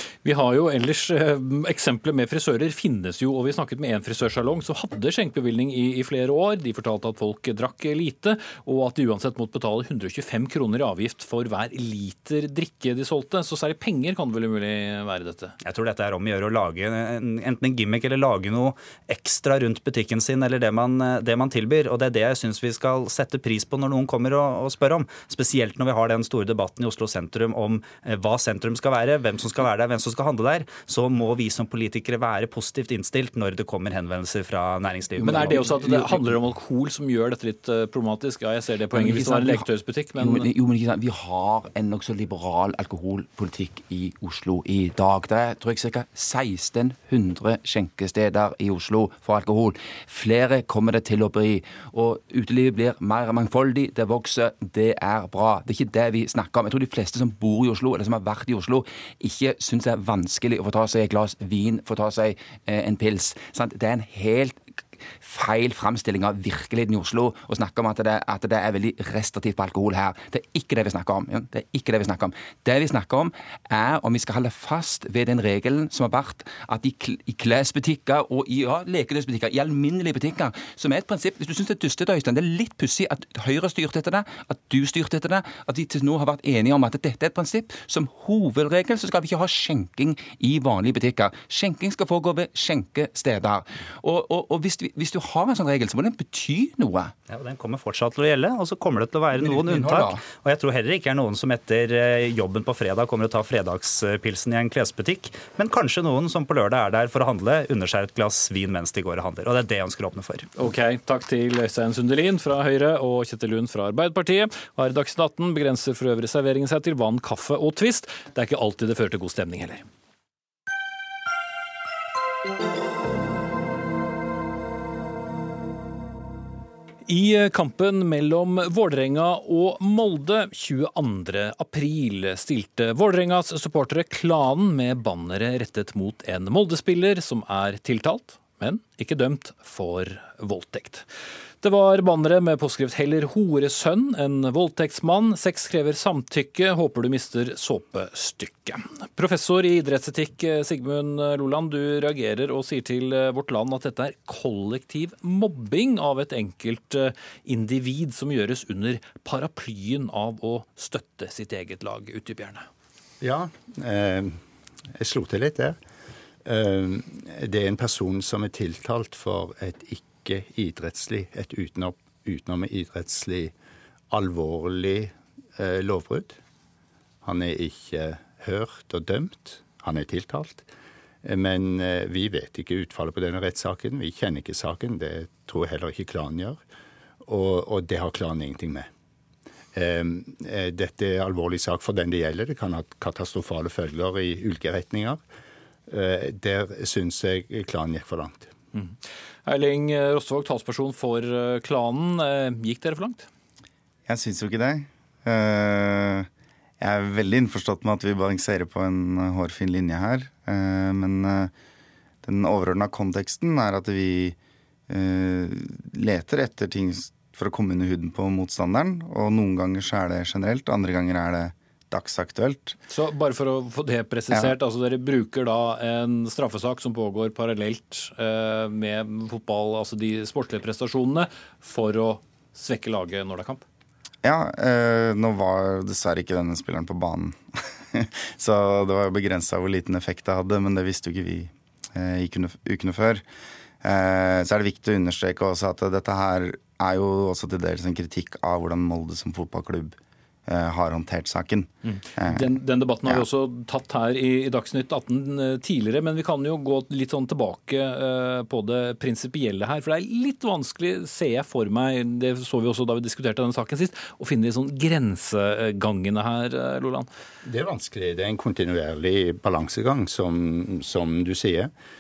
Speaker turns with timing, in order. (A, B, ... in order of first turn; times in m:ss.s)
0:00.2-0:15.5 A
0:15.6-0:36.1 B
0:35.2-0:40.5 A
0:38.9-1:37.1 C
1:37.3-1:50.5 B
1:39.4-1:40.2 C
1:50.6-1:59.8 A
2:07.1-2:21.0 A
2:21.6-2:42.6 A
2:43.2-2:44.4 D
2:45.0-2:45.8 D
2:46.4-2:53.5 D
2:54.1-2:56.4 D
2:57.2-3:00.7 D
3:01.2-3:06.6 D
3:07.2-3:08.9 D
3:09.7-3:15.2 D
3:15.9-3:18.5 D
3:18.7-3:23.3 A
3:24.1-3:26.3 E
3:26.8-3:31.5 E
3:32.2-3:34.4 E
3:34.9-3:42.8 E
3:42.9-3:53.6 A
3:54.2-3:57.4 E
3:57.9-4:03.2 E
4:03.8-4:13.2 E
4:11.9-4:27.1 A
4:27.4-4:31.7 D